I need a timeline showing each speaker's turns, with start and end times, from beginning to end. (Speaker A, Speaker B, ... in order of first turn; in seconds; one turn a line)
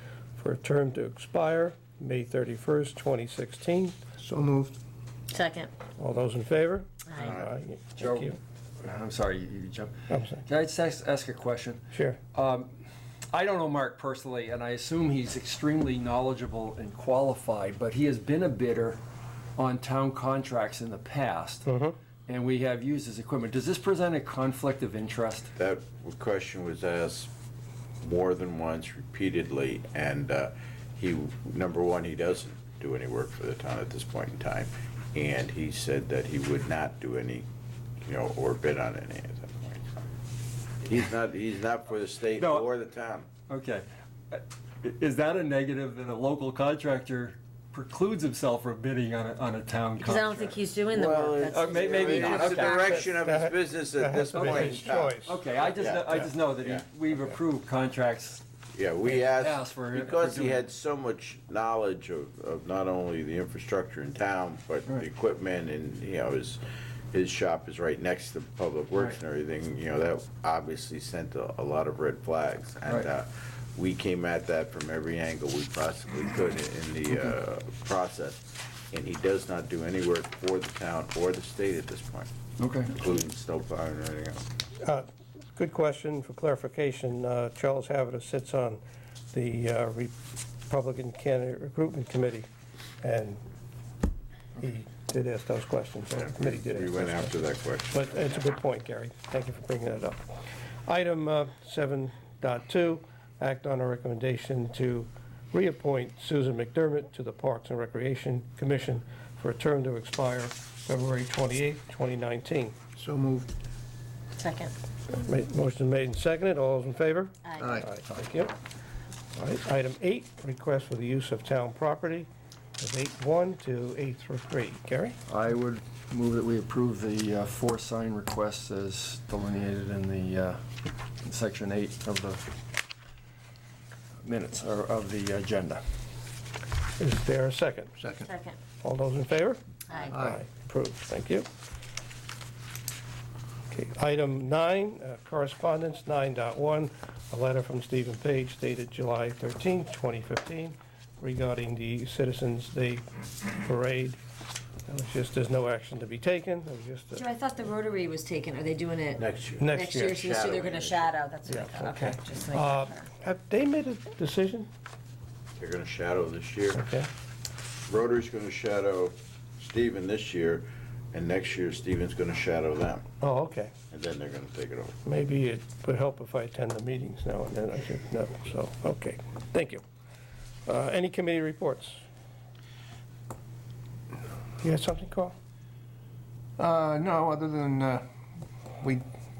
Speaker A: 0.4-4.0
Speaker B: 4.2-4.7
Speaker C: 5.3-5.7
Speaker A: 6.0-8.3
Speaker D: 7.2-7.5
Speaker E: 8.0-11.8
Speaker A: 10.1-10.4
Speaker A: 11.9-12.2
Speaker E: 12.3-12.7
Speaker E: 13.3-19.0
Speaker E: 19.6-21.7
Speaker A: 21.6-21.9
Speaker E: 22.3-25.5
Speaker D: 25.6-27.3
Speaker D: 28.0-37.5
Speaker D: 38.0-39.9
Speaker D: 40.8-43.3
Speaker E: 42.4-42.7
Speaker E: 43.5-50.6
Speaker C: 50.0-53.1
Speaker D: 50.9-56.8
Speaker E: 51.5-53.0
Speaker A: 53.0-55.4
Speaker E: 54.5-58.4
Speaker D: 58.7-82.3
Speaker E: 59.0-60.6
Speaker E: 82.6-83.0
Speaker D: 82.9-84.4
Speaker A: 84.8-88.8
Speaker A: 89.3-92.5
Speaker A: 93.0-93.4
Speaker A: 94.6-112.8
Speaker D: 96.2-98.3
Speaker B: 113.0-113.5
Speaker C: 114.4-114.7
Speaker A: 115.1-118.5
Speaker B: 117.6-117.9
Speaker A: 119.3-122.3
Speaker A: 122.8-125.2
Speaker E: 125.3-130.6
Speaker E: 131.2-132.4
Speaker E: 134.2-135.8
Speaker A: 137.0-138.0
Speaker B: 138.0-138.3
Speaker C: 138.2-138.6
Speaker A: 138.8-141.5
Speaker B: 140.1-140.4
Speaker A: 143.7-154.2
Speaker A: 154.9-157.2
Speaker C: 157.1-163.1
Speaker D: 159.2-161.2
Speaker A: 159.6-160.2
Speaker A: 161.5-164.7
Speaker D: 165.6-166.8
Speaker A: 166.7-167.1
Speaker D: 167.9-173.0
Speaker A: 173.2-173.7
Speaker D: 173.9-174.9
Speaker A: 175.0-179.8
Speaker A: 180.7-182.0
Speaker A: 184.6-185.3
Speaker B: 186.6-188.0